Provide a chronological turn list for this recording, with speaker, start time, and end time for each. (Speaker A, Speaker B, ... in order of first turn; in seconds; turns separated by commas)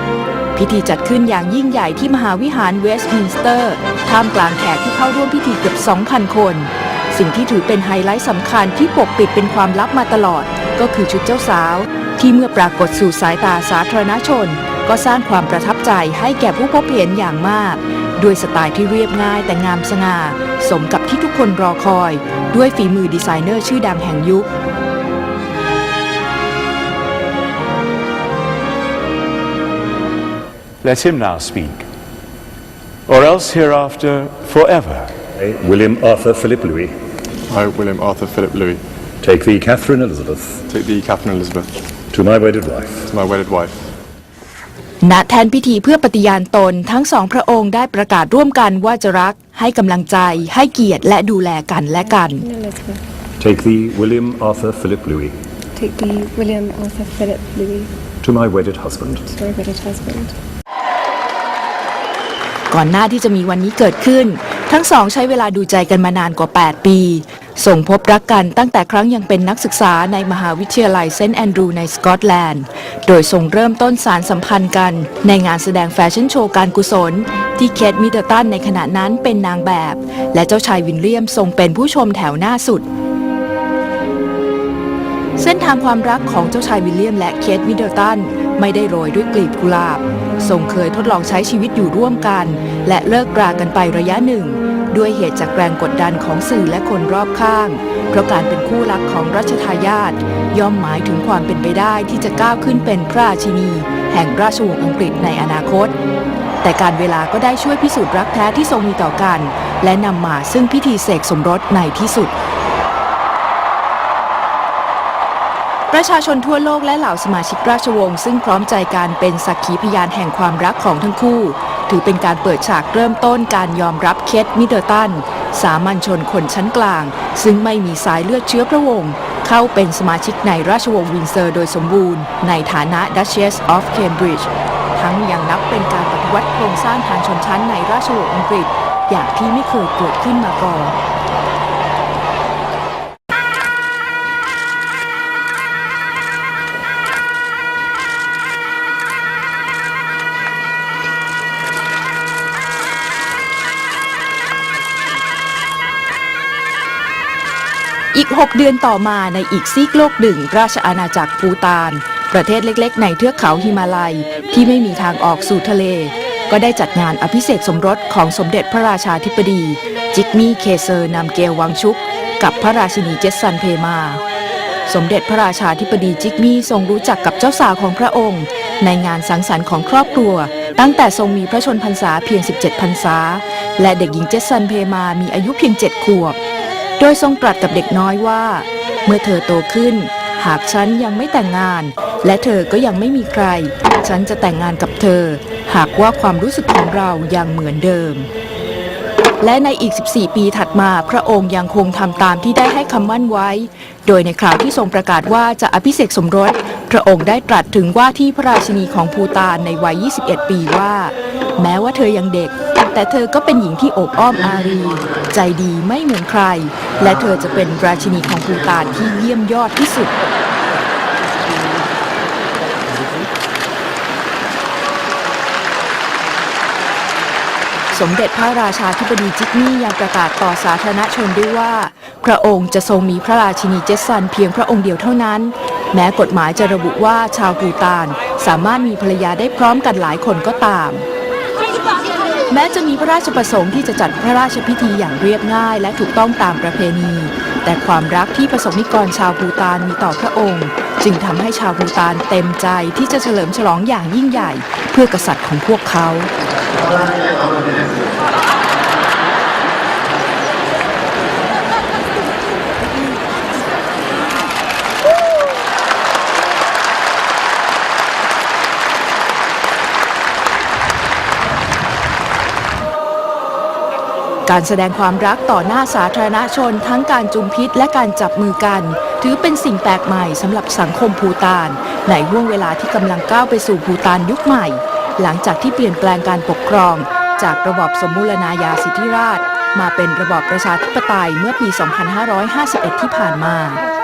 Speaker A: 0.6-24.5, Speaker B: 30.8-31.8, Speaker B: 33.1-35.1, Speaker C: 35.4-36.9, Speaker D: 37.5-38.8, Speaker C: 39.2-40.6, Speaker D: 40.7-41.7, Speaker C: 42.1-43.1, Speaker D: 43.1-43.7, Speaker A: 45.0-52.4, Speaker E: 52.3-53.0, Speaker C: 53.4-55.3, Speaker E: 55.8-57.9, Speaker C: 58.2-59.3, Speaker E: 59.3-60.3, Speaker A: 62.7-82.8, Speaker A: 85.4-105.9, Speaker A: 106.6-112.3, Speaker A: 115.9-140.9, Speaker A: 158.1-174.2, Speaker A: 174.9-186.4, Speaker A: 187.0-198.3, Speaker A: 199.4-220.1, Speaker A: 227.9-241.1, Speaker A: 242.5-256.3, Speaker A: 274.4-293.8